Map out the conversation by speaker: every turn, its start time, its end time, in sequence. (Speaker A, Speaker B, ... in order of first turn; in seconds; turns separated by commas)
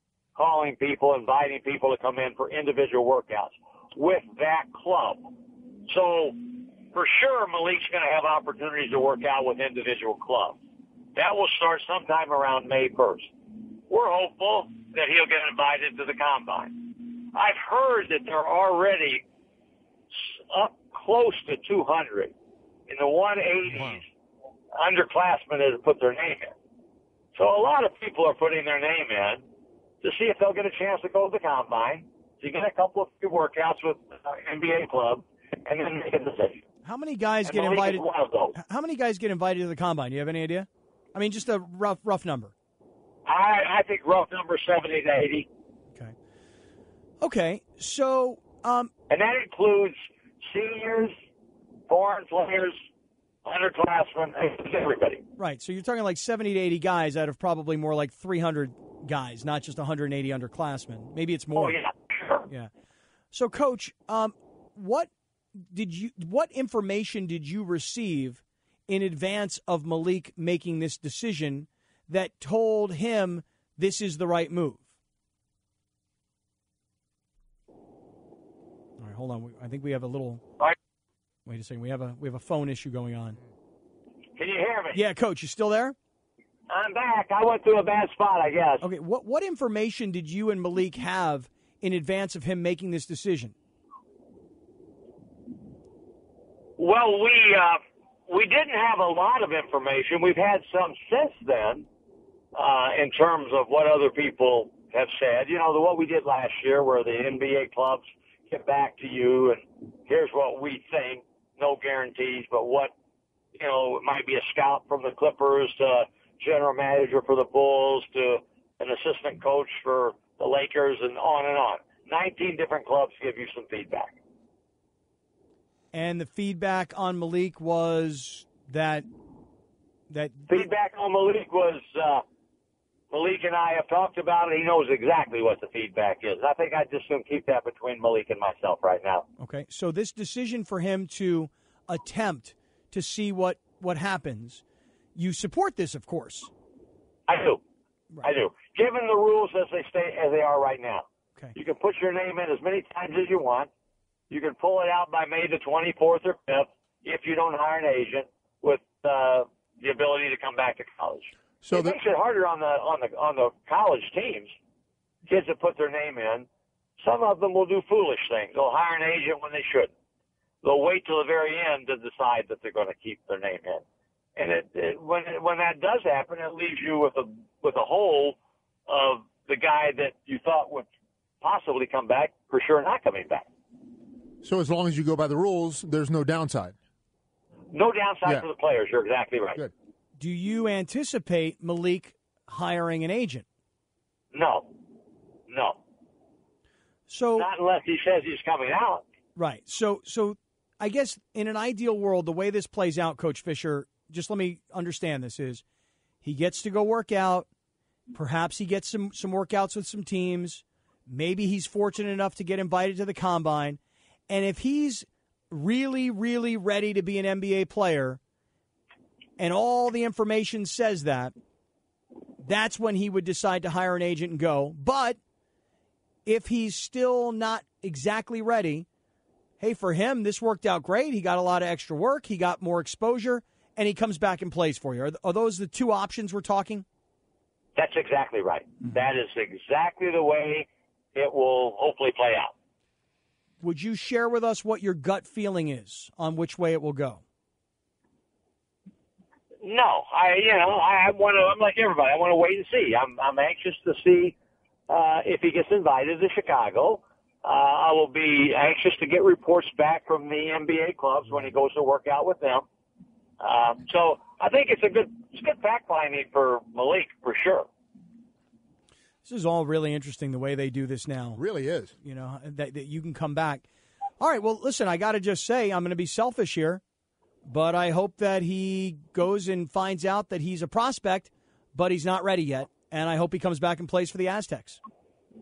Speaker A: 0.4-5.3, Speaker A: 5.9-10.6, Speaker A: 11.2-13.3, Speaker A: 13.9-19.2, Speaker A: 20.1-22.3, Speaker A: 22.9-24.1, Speaker A: 24.8-26.6, Speaker A: 27.4-29.4, Speaker A: 30.0-36.6, Speaker B: 36.8-42.5, Speaker A: 37.5-38.5, Speaker A: 43.2-45.5, Speaker B: 47.2-48.9, Speaker A: 49.1-51.1, Speaker A: 51.9-52.8, Speaker A: 53.4-55.2, Speaker B: 55.4-61.8, Speaker A: 61.6-62.5, Speaker B: 63.3-74.9, Speaker B: 79.0-80.4, Speaker B: 81.5-83.4, Speaker A: 84.4-85.0, Speaker B: 84.9-85.9, Speaker A: 86.7-88.8, Speaker B: 88.8-93.5, Speaker A: 96.8-101.9, Speaker A: 102.5-112.9, Speaker A: 113.6-124.1, Speaker B: 125.9-129.1, Speaker B: 130.1-130.6, Speaker A: 130.5-132.2, Speaker A: 133.1-139.2, Speaker B: 139.4-144.6, Speaker B: 145.2-146.5, Speaker A: 147.3-147.6, Speaker A: 148.2-153.7, Speaker A: 154.3-164.5, Speaker C: 161.6-161.9, Speaker A: 165.3-166.5, Speaker A: 167.0-169.9, Speaker A: 170.6-173.8, Speaker A: 174.4-180.9, Speaker A: 181.4-183.4, Speaker C: 184.4-186.8, Speaker A: 187.7-189.6, Speaker B: 190.2-193.4, Speaker A: 194.3-194.7, Speaker A: 195.5-195.8, Speaker B: 197.1-197.5, Speaker A: 197.4-199.0, Speaker B: 199.4-205.6, Speaker B: 206.2-207.5, Speaker B: 208.1-218.2, Speaker B: 219.4-221.3, Speaker B: 222.4-225.2, Speaker B: 226.2-228.9, Speaker B: 229.6-236.8, Speaker A: 237.8-242.5, Speaker B: 243.6-247.2, Speaker A: 249.6-254.3, Speaker A: 254.9-262.6, Speaker A: 263.4-267.7, Speaker B: 269.2-271.4, Speaker C: 271.4-271.9, Speaker B: 272.0-273.6, Speaker B: 274.2-276.8, Speaker B: 277.4-284.8